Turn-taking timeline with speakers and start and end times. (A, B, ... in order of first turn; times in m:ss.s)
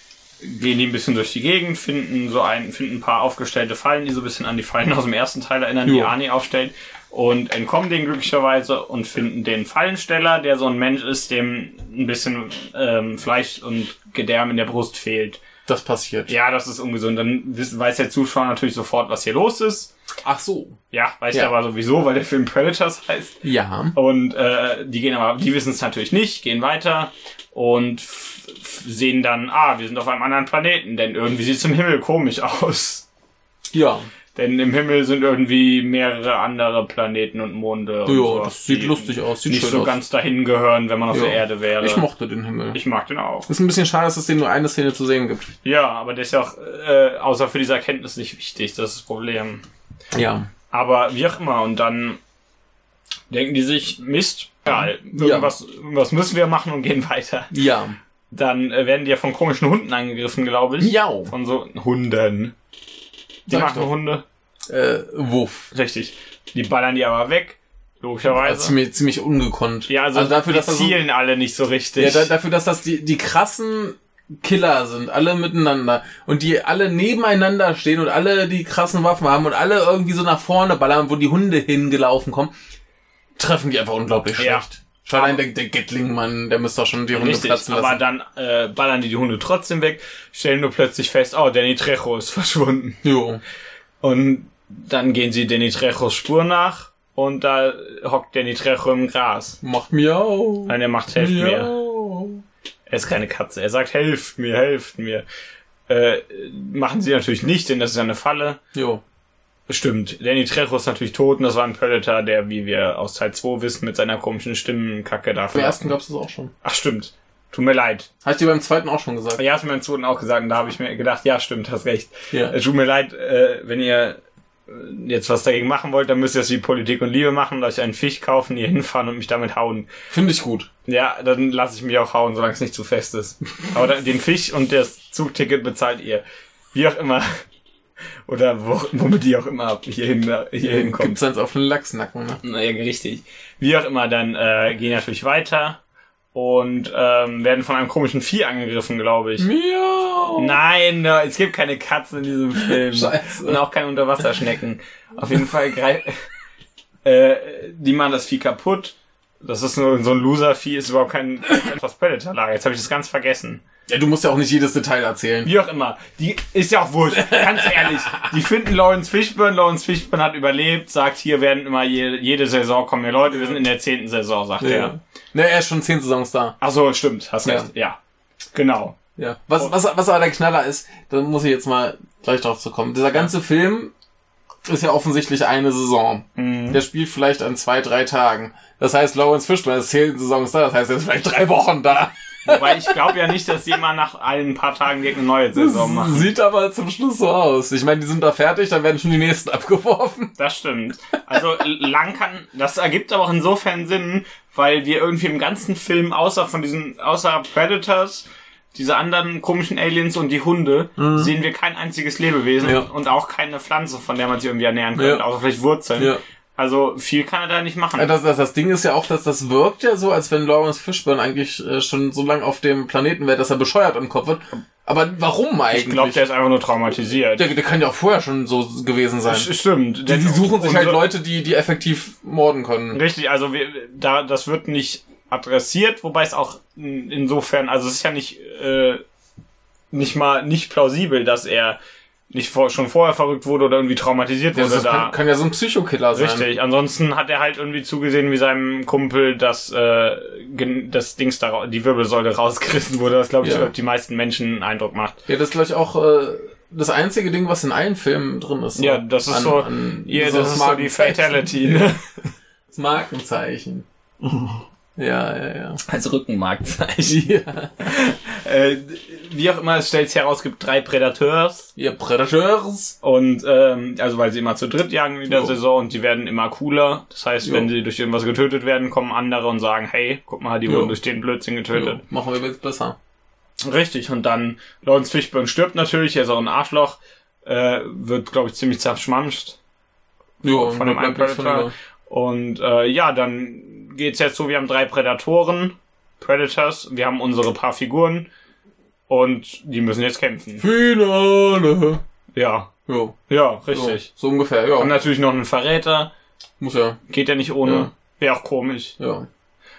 0:00.4-0:15.4 A
0:05.8-0:06.1 B
0:15.6-0:16.3 B
0:16.3-0:19.9 A
0:20.2-0:20.8 B
0:20.9-0:23.4 A
0:23.4-0:23.9 B
0:23.9-0:33.0 A
0:33.7-0:34.1 B
0:34.3-0:42.0 A
0:38.0-0:40.0 B
0:41.1-0:42.8 B
0:42.7-0:43.5 A
0:43.5-0:45.5 B
0:45.6-0:49.6 A
0:50.1-0:50.5 B
0:50.7-0:52.2 A
0:53.3-0:57.6 A
0:54.7-0:55.5 B
0:57.5-0:58.0 B
0:58.3-1:02.5 A
1:00.8-1:01.3 B
1:03.5-1:03.9 B
1:03.5-1:04.2 A
1:04.7-1:05.7 B
1:05.7-1:08.7 A
1:08.3-1:11.0 B
1:09.9-1:12.3 A
1:12.0-1:22.5 B
1:23.4-1:28.0 B
1:24.4-1:25.4 A
1:27.1-1:33.0 A
1:33.0-1:33.4 B
1:34.0-1:39.6 A
1:39.6-1:42.4 B
1:40.7-1:41.7 A
1:42.9-1:45.2 A
1:45.9-1:48.6 A
1:48.7-1:49.0 B
1:49.7-1:55.9 A
1:55.5-1:56.5 B
1:56.6-1:58.1 A
1:58.2-1:59.4 B
1:59.4-2:09.9 A
2:10.1-2:10.7 B
2:10.9-2:17.4 A
2:18.2-2:21.2 A
2:20.6-2:22.4 B
2:22.4-2:25.8 A
2:26.3-2:29.5 A
2:29.4-2:30.6 B
2:30.3-2:36.2 A
2:32.6-2:33.6 B
2:37.0-2:43.6 A
2:43.9-2:45.5 B
2:45.4-2:54.9 A
2:47.2-2:48.0 B
2:54.6-2:56.6 B
2:56.6-2:58.0 A
2:57.4-2:57.7 B
2:58.5-2:59.0 A
2:59.2-3:03.9 B
3:04.6-3:13.4 B
3:06.4-3:06.8 A
3:12.4-3:16.3 A
3:15.5-3:20.3 B
3:20.4-3:38.1 A
3:31.0-3:31.3 B
3:32.6-3:32.9 B
3:35.0-3:35.2 B
3:38.0-3:46.2 B
3:45.7-3:47.5 A
3:47.4-3:49.5 B
3:49.3-3:51.0 A
3:50.0-3:53.0 B
3:52.9-3:59.0 A
3:59.9-4:01.8 A
4:02.3-4:05.1 A
4:04.5-4:06.5 B
4:06.1-4:15.2 A
4:13.4-4:13.7 B
4:15.3-4:21.9 B
4:18.8-4:22.0 A
4:22.7-4:25.8 B
4:25.8-4:27.3 A
4:27.0-4:27.9 B
4:27.8-4:31.7 A
4:31.8-4:33.0 B
4:33.0-4:42.0 A
4:35.3-4:35.5 B
4:37.4-4:37.7 B
4:40.6-4:41.0 B
4:41.7-4:43.0 B
4:43.6-4:49.6 A
4:50.4-4:51.7 B
4:50.5-4:58.3 A
4:59.1-5:00.6 A
5:00.6-5:02.0 B
5:02.3-5:02.7 A
5:02.9-5:03.2 B
5:03.3-5:04.1 A
5:03.7-5:05.0 B
5:04.8-5:06.1 A
5:06.6-5:07.0 B
5:07.1-5:09.0 A
5:07.6-5:07.9 B
5:09.0-5:09.3 B